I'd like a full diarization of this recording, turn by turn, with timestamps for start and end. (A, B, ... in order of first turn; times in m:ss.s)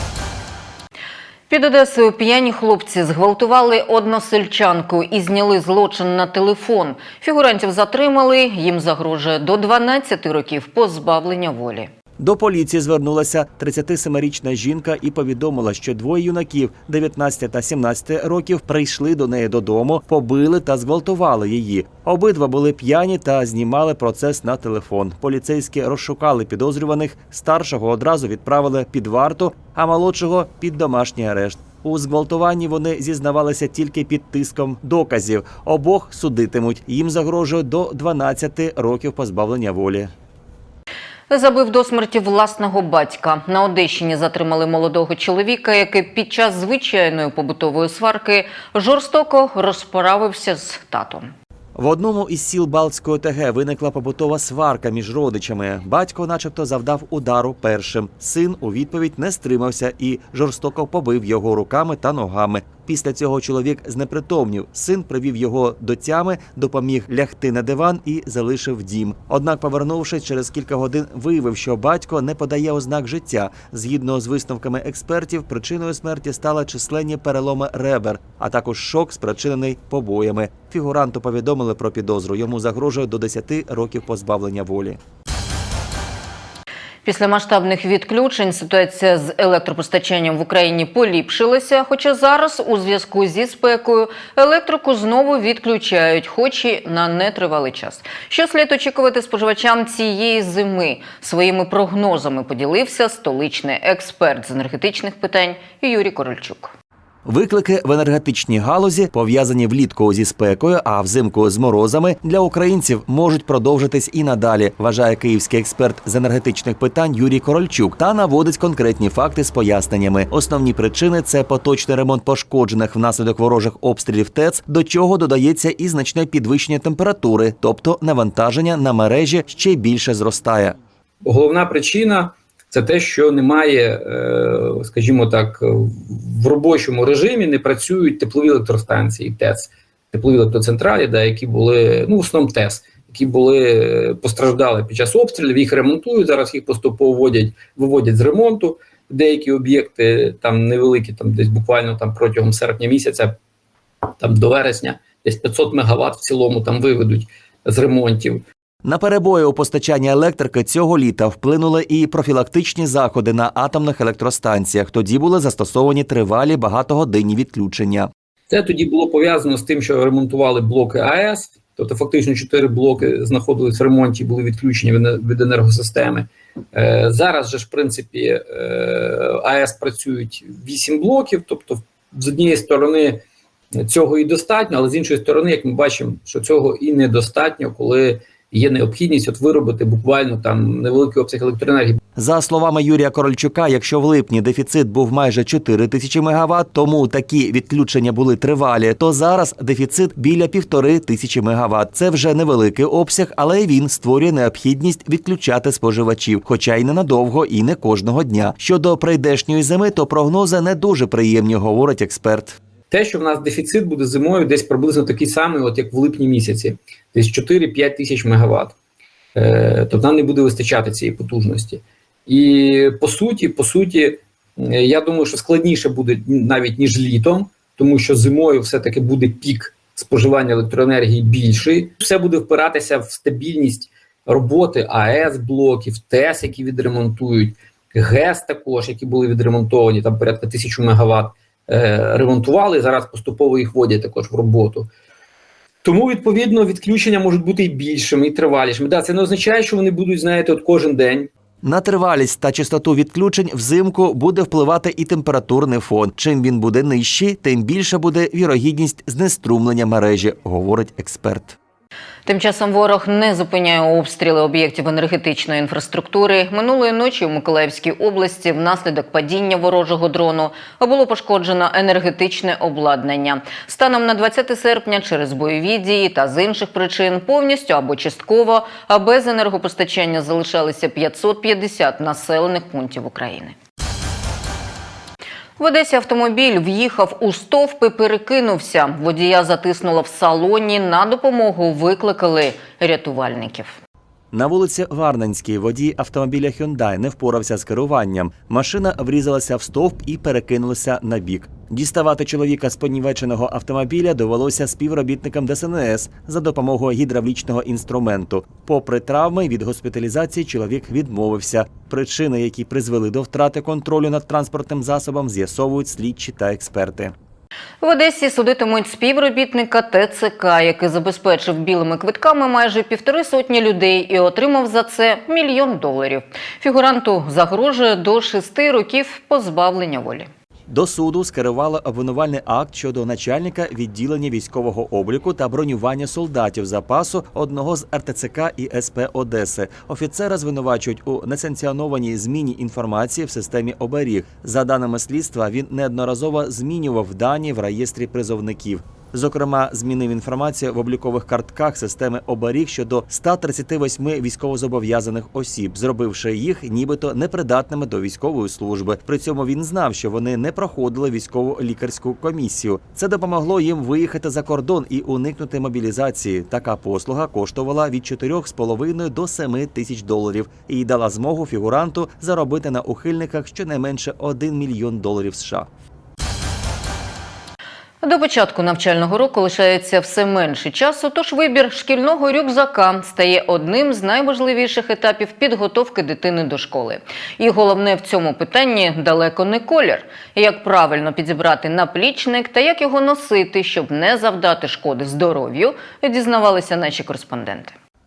0:01.5-0:11.9 A
0:12.2-0:40.1 B
0:41.3-0:51.3 A
0:51.8-1:25.0 B
1:27.0-1:46.7 A
1:47.2-2:10.8 B
2:11.2-2:33.4 C
2:34.2-2:38.4 C
2:38.8-2:48.1 B
2:48.5-3:03.2 C
3:03.8-3:12.0 C
3:12.2-3:32.6 B
3:32.9-3:38.8 C
3:39.3-4:04.9 C
4:05.8-4:11.3 C
4:11.6-4:21.6 B
4:22.2-4:43.6 A
4:45.6-4:53.8 A
4:54.3-5:17.1 B
5:17.8-5:30.3 A
5:30.7-6:15.7 B
6:18.0-6:37.8 A